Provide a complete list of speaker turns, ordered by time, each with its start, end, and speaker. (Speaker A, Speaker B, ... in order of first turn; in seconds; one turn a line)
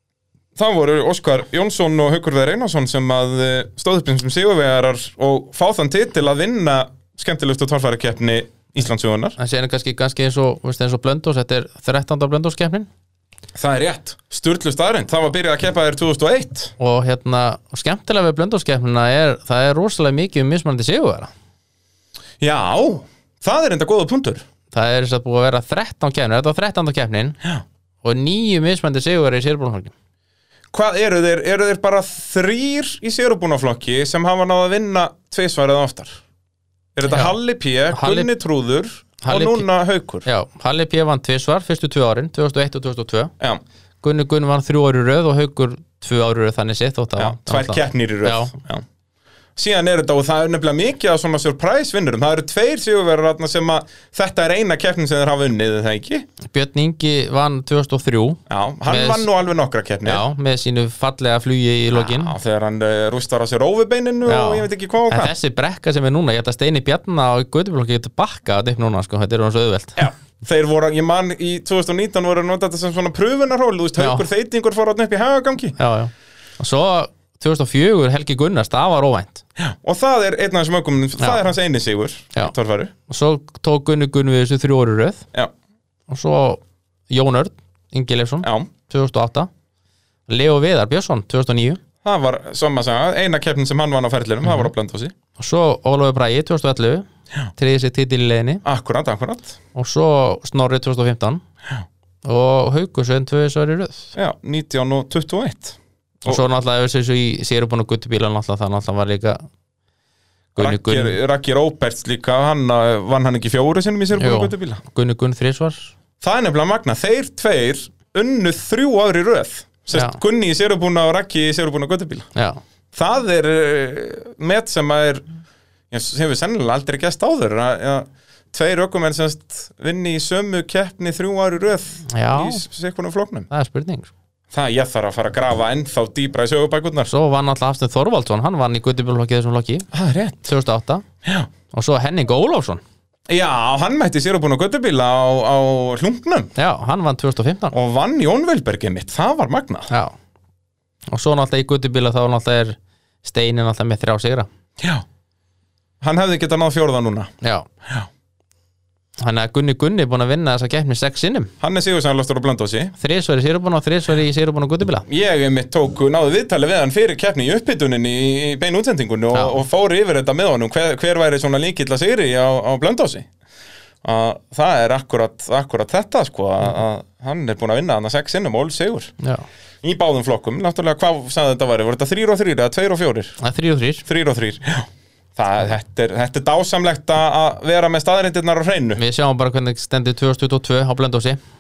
Speaker A: 0.6-9.4
Speaker B: 9.4-12.9
Speaker A: 13.6-16.7
Speaker B: 16.8-21.3
Speaker A: 22.4-24.4
Speaker B: 24.7-27.4
Speaker B: 28.0-29.9
Speaker A: 30.7-36.2
Speaker A: 37.0-40.3
Speaker B: 37.1-37.4
Speaker B: 37.9-38.3
Speaker B: 39.2-39.7
Speaker B: 40.2-43.3
Speaker B: 44.0-48.5
Speaker A: 47.2-48.8
Speaker A: 49.6-56.3
Speaker B: 56.5-59.3
Speaker A: 58.5-60.2
Speaker B: 60.0-62.4
Speaker A: 61.9-65.3
Speaker B: 64.3-70.1
Speaker A: 70.0-75.8
Speaker B: 74.0-74.2
Speaker B: 75.8-79.4
Speaker A: 79.6-82.9
Speaker B: 83.1-85.3
Speaker B: 86.1-89.5
Speaker A: 88.4-88.7
Speaker B: 90.3-91.8
Speaker A: 92.0-95.1
Speaker B: 94.5-94.7
Speaker B: 95.4-98.6
Speaker A: 98.6-99.6
Speaker B: 99.7-101.4
Speaker B: 102.2-104.1
Speaker A: 104.2-106.4
Speaker B: 106.3-109.4
Speaker B: 110.5-111.2
Speaker A: 110.6-114.8
Speaker B: 114.2-115.9
Speaker A: 116.2-122.3
Speaker B: 119.9-120.2
Speaker B: 122.3-122.6
Speaker A: 122.9-125.2
Speaker A: 125.9-133.5
Speaker B: 132.1-132.6
Speaker B: 133.5-134.1
Speaker A: 134.5-137.1
Speaker B: 137.1-139.9
Speaker A: 139.9-140.4
Speaker B: 140.4-141.1
Speaker A: 141.2-141.5
Speaker B: 141.7-142.8
Speaker A: 143.3-146.5
Speaker B: 146.6-147.7
Speaker A: 147.7-149.9
Speaker B: 151.1-154.5
Speaker A: 154.8-155.1
Speaker A: 156.0-157.3
Speaker B: 159.2-161.5
Speaker A: 161.6-162.9
Speaker B: 163.0-165.1
Speaker A: 165.1-173.3
Speaker A: 174.0-179.1
Speaker B: 179.2-179.5
Speaker A: 179.8-183.4
Speaker B: 183.4-184.0
Speaker A: 184.1-189.0
Speaker B: 189.0-191.4